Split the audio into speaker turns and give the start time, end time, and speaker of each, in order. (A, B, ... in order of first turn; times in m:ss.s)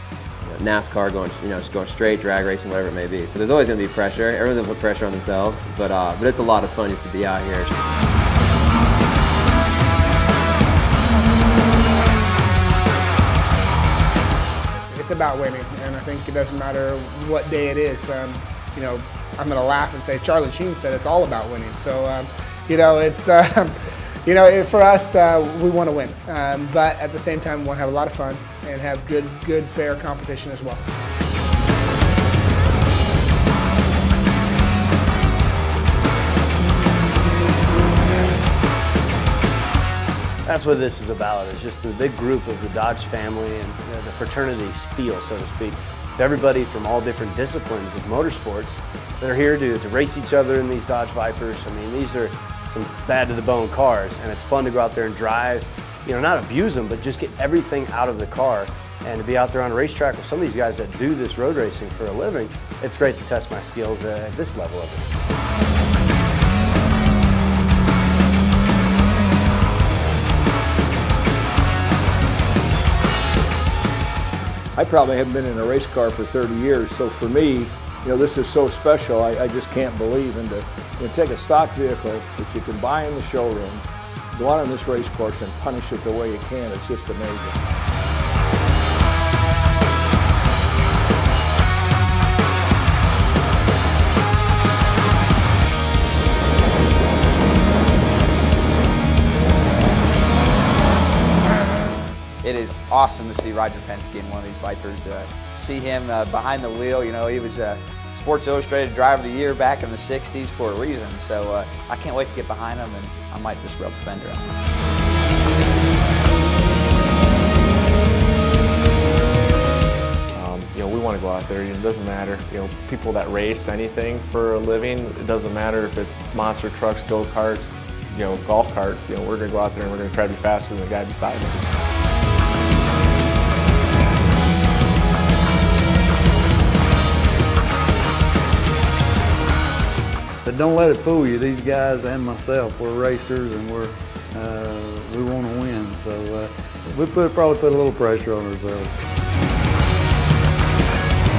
0:00.4-0:07.7 A
0:14.7-0:30.8 B
0:40.4-1:05.0 C
1:14.8-1:27.6 D
1:42.4-1:54.5 E
2:00.3-2:11.6 F
2:20.4-2:29.0 G